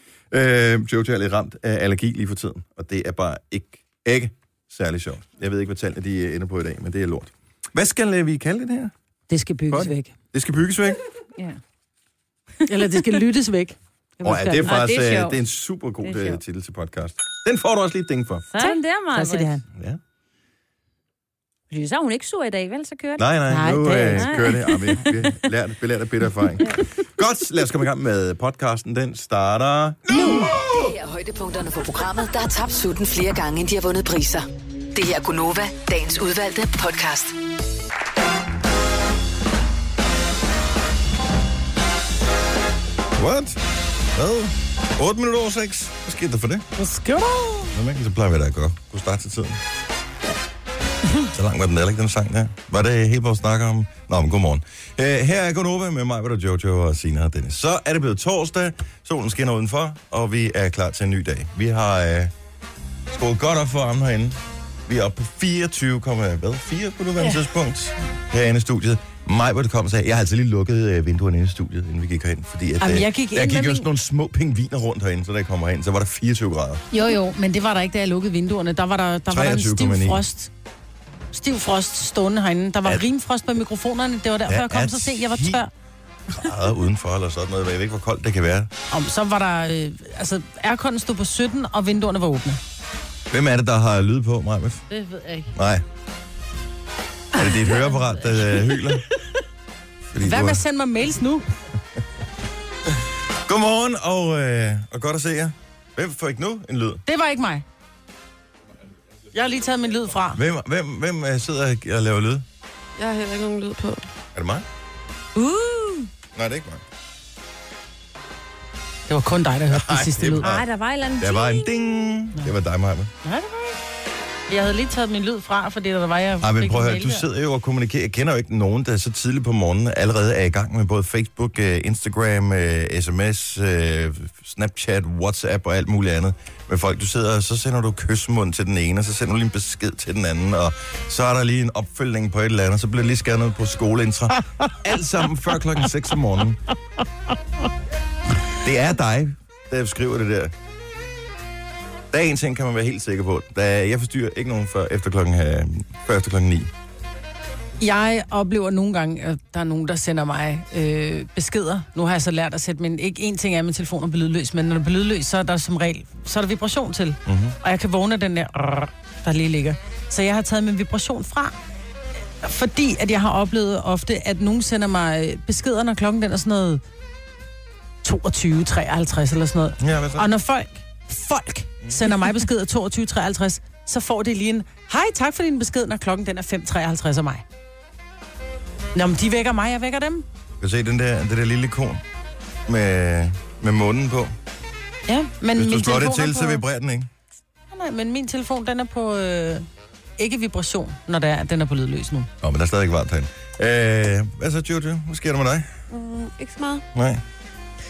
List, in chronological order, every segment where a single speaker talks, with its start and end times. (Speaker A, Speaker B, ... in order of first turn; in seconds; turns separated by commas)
Speaker A: 0.3-8.9, Speaker B: 9.3-10.1, Speaker A: 9.7-11.0, Speaker B: 12.7-14.8, Speaker A: 14.2-18.4, Speaker C: 14.6-15.4, Speaker C: 16.0-16.4, Speaker C: 18.5-19.6, Speaker B: 18.6-19.6, Speaker A: 19.7-20.0, Speaker C: 21.7-25.0, Speaker A: 23.2-30.9, Speaker B: 23.5-24.4, Speaker B: 30.1-30.5, Speaker D: 30.1-37.3, Speaker A: 43.1-43.6, Speaker A: 44.1-46.7, Speaker B: 46.8-47.7, Speaker A: 47.7-49.6, Speaker A: 51.3-62.3, Speaker A: 63.1-76.8, Speaker B: 72.8-73.9, Speaker B: 76.9-80.5, Speaker A: 79.3-80.2, Speaker B: 81.3-85.7, Speaker A: 84.5-85.6, Speaker A: 86.3-88.7, Speaker B: 88.9-92.6, Speaker A: 93.3-94.8, Speaker B: 94.9-95.5, Speaker A: 95.5-95.8, Speaker A: 97.3-99.0, Speaker A: 100.1-100.6, Speaker B: 100.2-101.5, Speaker A: 103.5-107.0, Speaker B: 107.1-107.6, Speaker B: 109.3-110.4, Speaker A: 110.3-112.4, Speaker E: 113.0-114.0, Speaker A: 114.3-114.7, Speaker C: 115.3-116.1, Speaker A: 116.3-116.8, Speaker B: 119.1-120.5, Speaker A: 119.7-120.7, Speaker C: 120.4-121.8, Speaker A: 121.2-123.1, Speaker B: 123.2-123.8, Speaker B: 124.5-127.2, Speaker A: 126.4-146.6, Speaker A: 148.6-150.5, Speaker A: 152.1-156.7, Speaker B: 157.8-171.5, Speaker A: 167.2-167.6, Speaker B: 172.4-176.8, Speaker B: 178.0-187.4, Speaker A: 179.8-180.3, Speaker A: 181.8-182.1, Speaker B: 188.9-190.2, Speaker A: 190.6-192.0, Speaker A: 192.7-194.3, Speaker B: 195.1-196.6, Speaker A: 195.5-197.1, Speaker B: 197.7-199.7, Speaker B: 200.2-202.3, Speaker A: 202.4-205.7, Speaker E: 205.9-206.8, Speaker A: 206.9-207.2